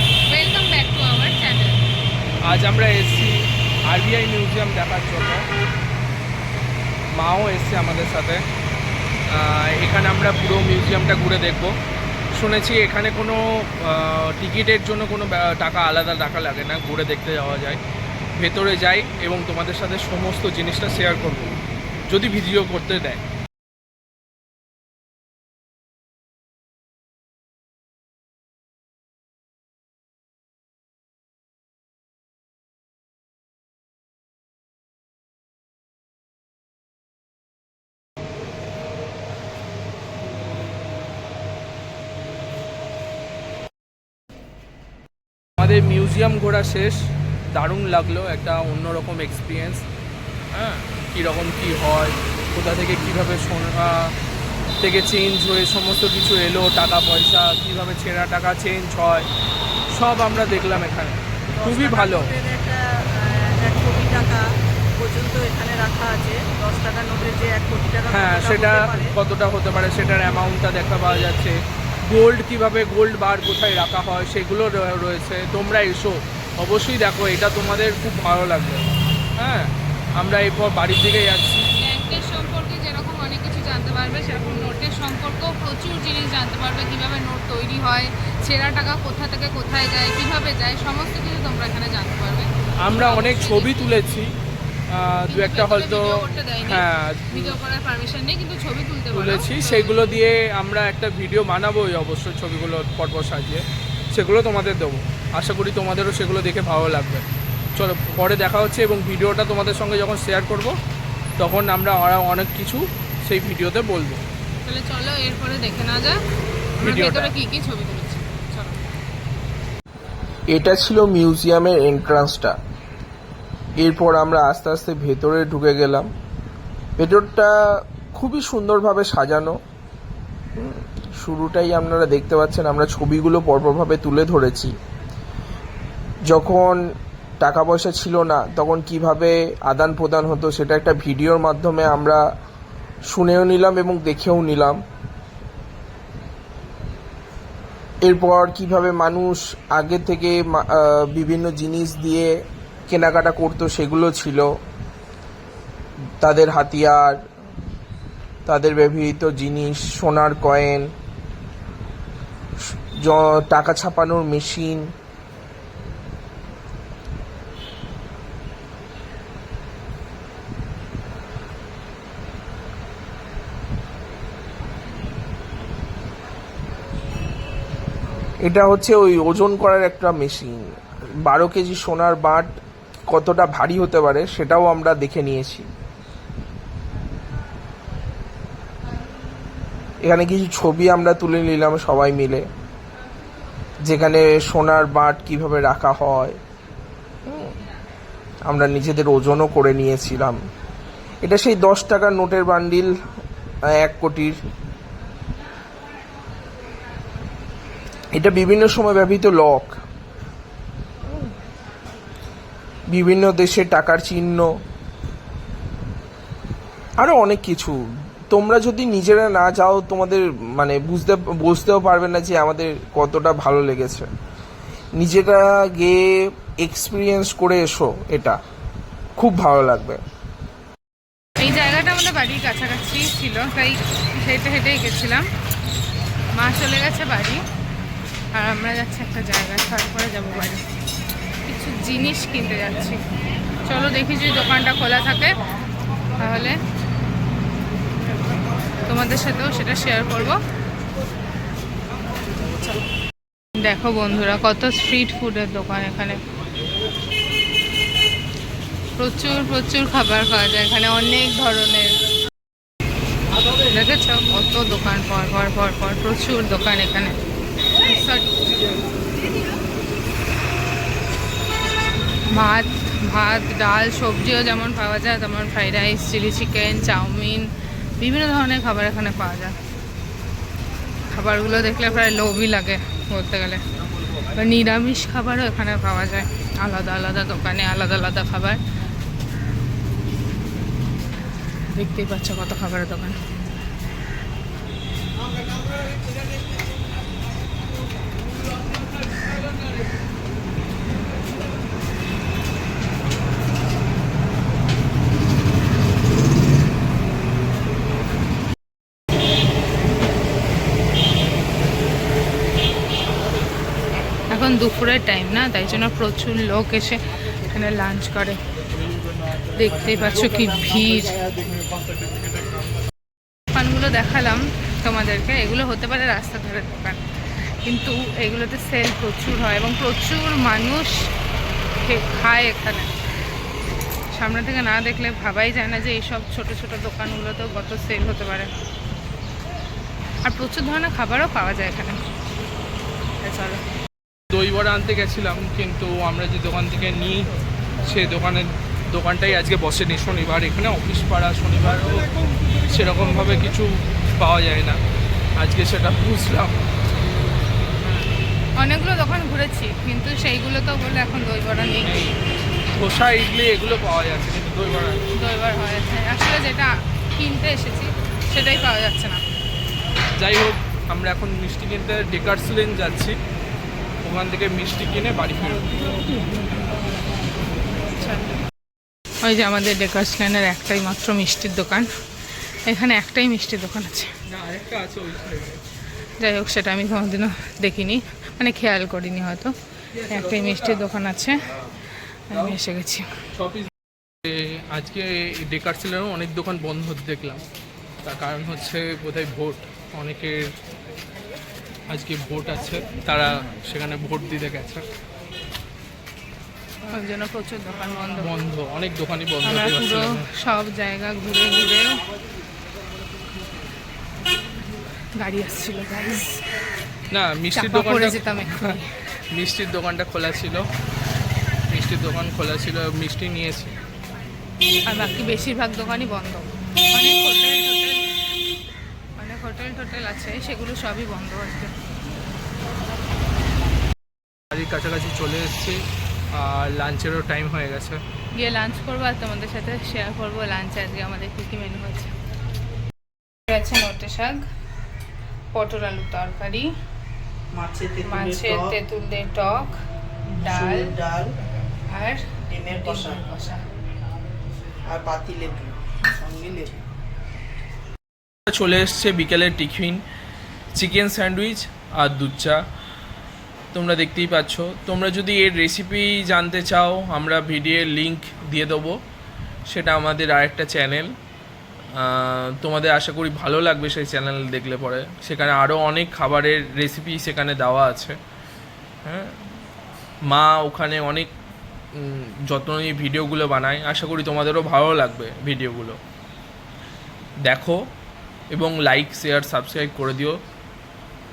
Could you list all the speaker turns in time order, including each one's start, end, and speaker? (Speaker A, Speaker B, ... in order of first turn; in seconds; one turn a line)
Speaker A: 0.3-1.8
Speaker B: 2.5-5.4
Speaker B: 7.2-8.4
Speaker B: 9.3-11.7
Speaker B: 12.3-17.8
Speaker B: 18.4-21.6
Speaker B: 22.1-23.2
Speaker B: 45.6-47.0
Speaker B: 47.5-49.8
Speaker B: 50.5-54.1
Speaker B: 54.8-59.3
Speaker B: 59.9-62.3
Speaker C: 61.5-64.5
Speaker C: 65.0-69.1
Speaker B: 68.1-78.8
Speaker B: 79.4-81.7
Speaker A: 81.7-94.0
Speaker B: 92.8-94.3
Speaker B: 94.9-97.5
Speaker A: 95.3-100.2
Speaker B: 99.1-107.2
Speaker B: 107.8-110.8
Speaker B: 111.4-114.2
Speaker A: 114.6-116.2
Speaker B: 116.8-117.3
Speaker A: 116.8-118.8
Speaker D: 120.5-122.5
Speaker D: 123.8-126.1
Speaker D: 127.0-129.6
Speaker D: 130.6-134.7
Speaker D: 136.3-136.8
Speaker D: 137.4-142.2
Speaker D: 143.1-144.8
Speaker D: 148.0-152.3
Speaker D: 152.9-154.5
Speaker D: 156.2-157.2
Speaker D: 158.4-160.9
Speaker D: 163.0-164.9
Speaker D: 178.4-182.5
Speaker D: 183.1-185.7
Speaker D: 190.0-192.4
Speaker D: 193.8-196.4
Speaker D: 197.3-197.6
Speaker D: 198.5-200.4
Speaker D: 201.2-202.9
Speaker D: 203.8-204.4
Speaker D: 208.2-209.8
Speaker D: 212.9-214.5
Speaker D: 217.0-224.1
Speaker D: 225.0-228.4
Speaker D: 229.2-230.0
Speaker A: 231.4-235.2
Speaker A: 236.4-237.4
Speaker A: 238.3-240.6
Speaker A: 241.4-243.0
Speaker A: 243.6-245.4
Speaker A: 246.1-246.6
Speaker A: 248.8-250.4
Speaker A: 253.6-256.2
Speaker A: 259.0-261.9
Speaker A: 263.7-267.1
Speaker A: 267.8-268.6
Speaker A: 272.3-277.5
Speaker A: 278.0-279.5
Speaker A: 281.1-283.6
Speaker A: 284.3-288.6
Speaker A: 291.8-293.2
Speaker A: 314.3-317.0
Speaker A: 317.5-318.4
Speaker A: 319.5-321.6
Speaker A: 323.5-327.0
Speaker A: 327.6-330.9
Speaker A: 331.8-332.9
Speaker A: 334.1-338.5
Speaker A: 340.2-342.0
Speaker A: 343.2-343.6
Speaker B: 344.3-347.3
Speaker B: 347.8-352.1
Speaker B: 352.6-354.8
Speaker B: 355.4-356.6
Speaker A: 358.6-362.0
Speaker B: 361.8-362.2
Speaker B: 362.8-365.0
Speaker A: 365.2-369.2
Speaker B: 370.2-373.1
Speaker B: 374.0-375.7
Speaker A: 377.9-378.4
Speaker A: 379.2-381.9
Speaker A: 382.7-384.1
Speaker B: 384.3-385.6
Speaker A: 386.2-389.5
Speaker B: 389.9-390.8
Speaker A: 390.1-391.4
Speaker A: 392.3-393.1
Speaker B: 393.4-393.7
Speaker B: 394.2-397.4
Speaker B: 398.0-400.5
Speaker B: 401.9-404.8
Speaker A: 406.8-408.3
Speaker B: 408.2-410.2
Speaker A: 409.4-412.0
Speaker A: 415.2-416.4
Speaker B: 417.1-418.8
Speaker A: 417.5-418.8
Speaker B: 419.3-420.7
Speaker B: 421.7-423.7
Speaker A: 424.9-428.2
Speaker A: 429.2-431.7
Speaker B: 434.5-435.8
Speaker B: 436.3-438.0
Speaker A: 438.4-442.1
Speaker A: 443.5-444.4
Speaker A: 445.5-446.7
Speaker C: 447.5-448.7
Speaker A: 448.0-449.8
Speaker C: 450.3-451.4
Speaker A: 450.4-450.9
Speaker A: 451.9-453.6
Speaker C: 452.4-453.2
Speaker C: 454.9-456.8
Speaker B: 458.5-459.9
Speaker B: 460.8-462.5
Speaker D: 467.7-468.9
Speaker D: 470.2-471.1
Speaker D: 472.1-473.2
Speaker D: 473.9-475.6
Speaker B: 476.2-478.0
Speaker D: 480.3-481.2
Speaker B: 488.8-489.4